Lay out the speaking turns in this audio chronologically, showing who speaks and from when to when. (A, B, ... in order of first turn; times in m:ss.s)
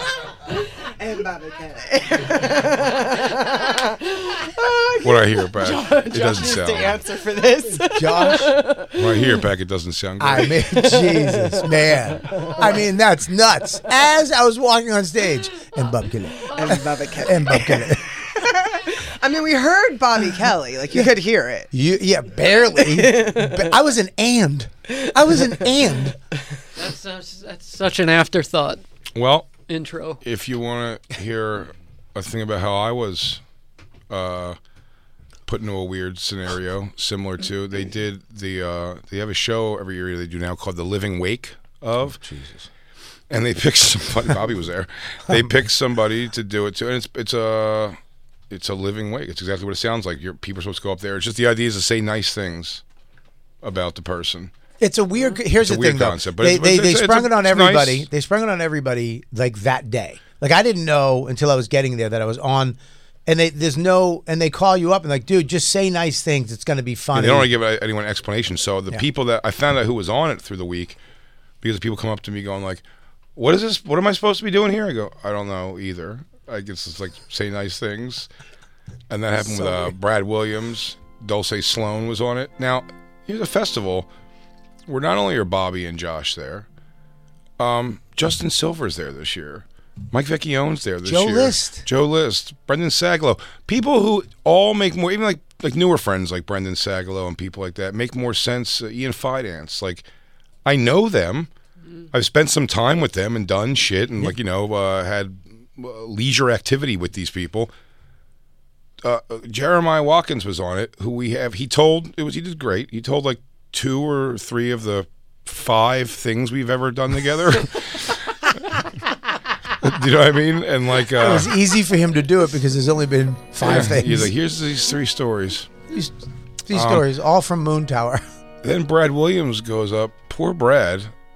0:00.5-0:09.3 A
0:05.0-0:07.0 B
0:07.9-0:08.6 C
0:09.0-0:10.6 B
0:10.2-0:18.0 C
0:10.8-0:11.7 A
0:12.3-0:12.6 A
0:16.5-0:21.7 A
0:21.7-0:26.2 C
0:22.8-0:23.7 A
0:26.8-0:28.8 D
0:29.2-0:29.5 B
0:29.7-0:30.2 D
0:30.2-0:33.4 B
0:34.1-0:34.6 B
0:35.5-0:42.2 B
0:42.2-0:42.6 C
0:43.3-0:48.0 B
0:48.5-0:52.8 B
0:53.6-0:54.5 B
0:54.8-1:07.5 C
0:55.6-0:58.0 B
1:07.1-1:11.0 B
1:11.6-1:12.8 B
1:13.4-1:18.3 B
1:19.1-1:24.1 B
1:19.4-1:19.9 C
1:24.9-1:26.7 B
1:27.6-1:40.0 B
1:31.0-1:31.8 C
1:40.6-1:41.5 B
1:42.1-1:47.7 B
1:49.0-1:58.6 B
1:59.8-2:01.5 B
2:01.2-2:04.3 C
2:03.6-2:05.7 B
2:06.6-2:08.2 C
2:06.7-2:07.0 B
2:08.6-2:11.1 B